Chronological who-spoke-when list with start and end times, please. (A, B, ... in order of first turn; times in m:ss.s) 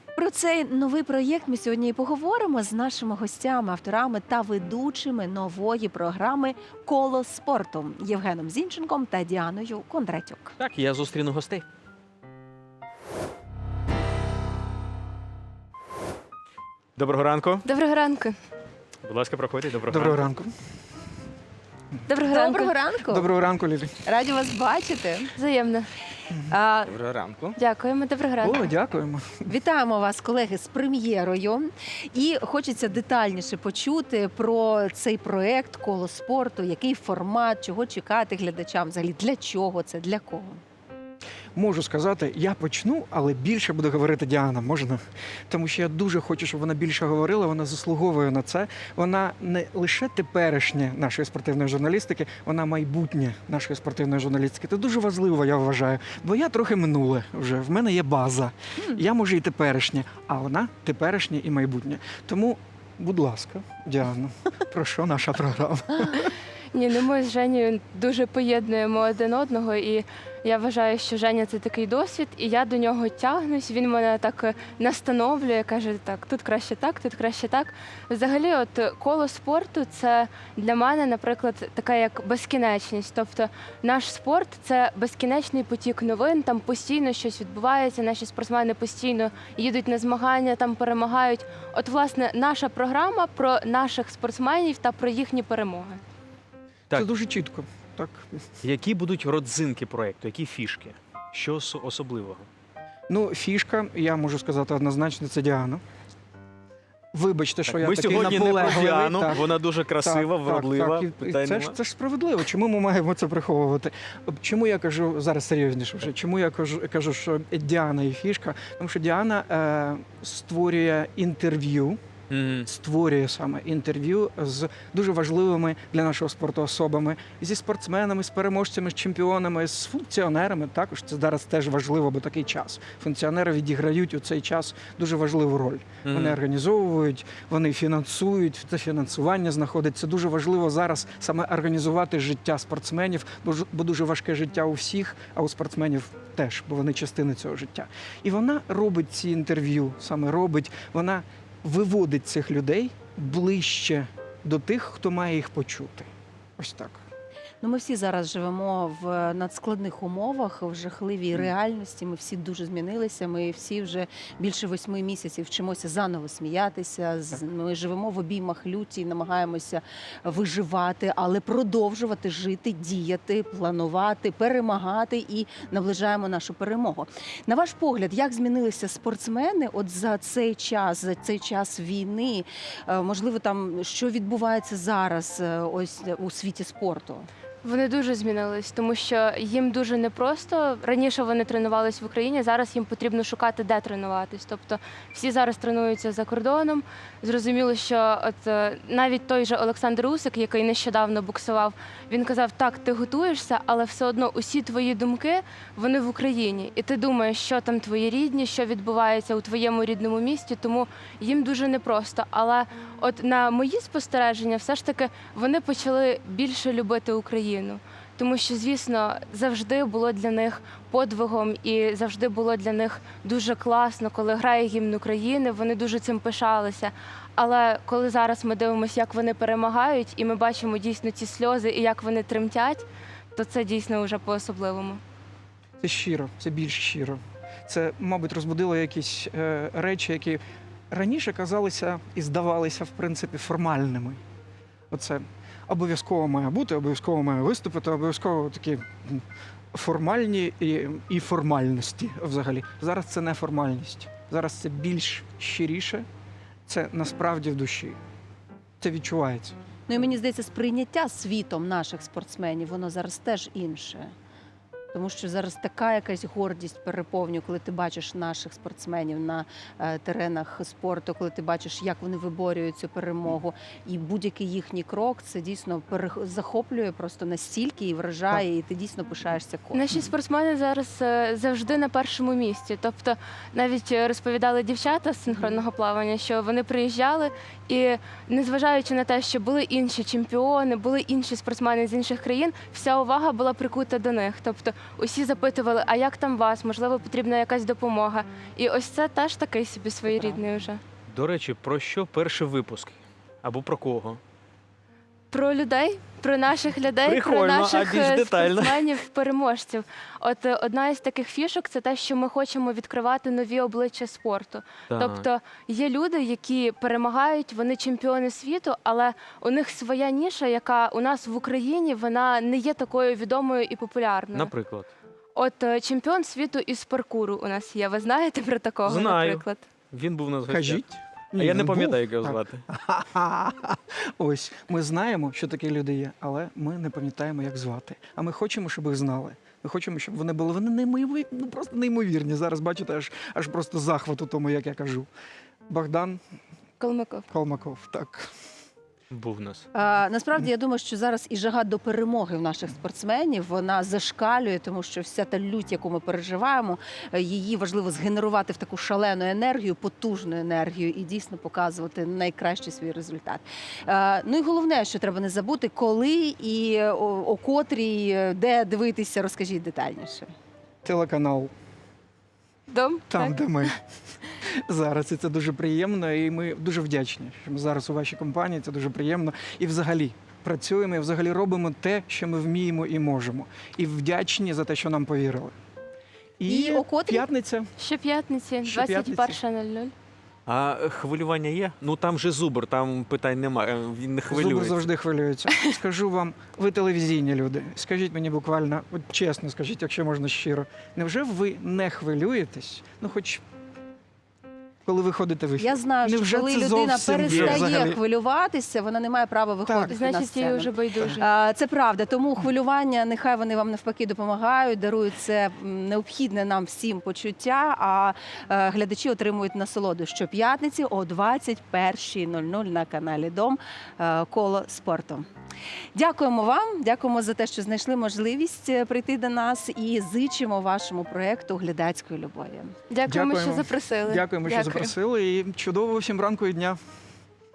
0:00.2-0:10.5 A
0:10.6-0:11.6 B
0:17.0-0:17.6 B
0:17.6-0:18.4 C
0:19.0-0:20.3 B
0:19.9-0:20.5 D
0:22.1-0:22.7 C
0:22.3-0:23.3 A
0:23.1-0:24.0 D
0:24.0-0:25.3 A
0:25.4-0:25.9 C
0:26.5-0:26.9 A
0:26.9-0:27.5 B
0:27.6-0:28.7 C
0:28.4-0:29.5 D
0:29.5-0:40.6 A
0:41.6-1:06.3 D
1:06.7-1:36.0 C
1:36.9-1:38.4 D
1:38.6-1:42.5 B
1:43.1-1:45.8 D
1:47.1-2:02.0 D
1:47.7-1:51.8 B
2:02.3-2:02.7 B
2:02.6-2:37.0 D
2:16.1-2:16.4 B
2:37.6-3:07.3 A
3:07.6-3:55.0 C
3:55.8-4:04.2 D
4:04.9-4:16.1 D
4:16.7-4:18.0 D
4:18.8-4:19.6 D
4:19.9-4:24.1 A
4:24.9-4:39.9 A
4:39.7-5:00.8 C
4:45.3-4:45.6 A
5:01.1-5:04.2 B
5:05.3-5:24.5 C
5:07.1-5:08.9 B
5:14.9-5:15.3 B
5:24.3-5:24.9 B
5:25.4-5:29.6 C
5:28.8-5:30.8 B
5:30.5-5:45.1 D
5:31.4-5:32.6 B
5:45.7-5:46.2 D
5:46.8-5:47.3 C
5:47.3-5:48.3 D
5:49.1-5:49.6 B
5:49.7-6:10.3 A
6:10.8-6:11.5 D
6:12.7-6:13.4 C
6:13.1-6:13.8 D
6:14.4-6:25.5 D
6:26.4-6:27.7 D
6:26.5-6:27.2 A
6:27.8-6:29.9 C
6:28.6-6:29.4 D
6:30.4-6:34.9 B
6:34.3-6:43.4 D
6:44.8-6:48.0 D
6:45.6-7:05.2 A
6:47.2-6:47.6 B
6:49.7-6:50.0 D
6:49.9-6:51.2 C
7:05.9-7:12.7 A
7:12.9-7:14.9 C
7:13.1-7:16.8 D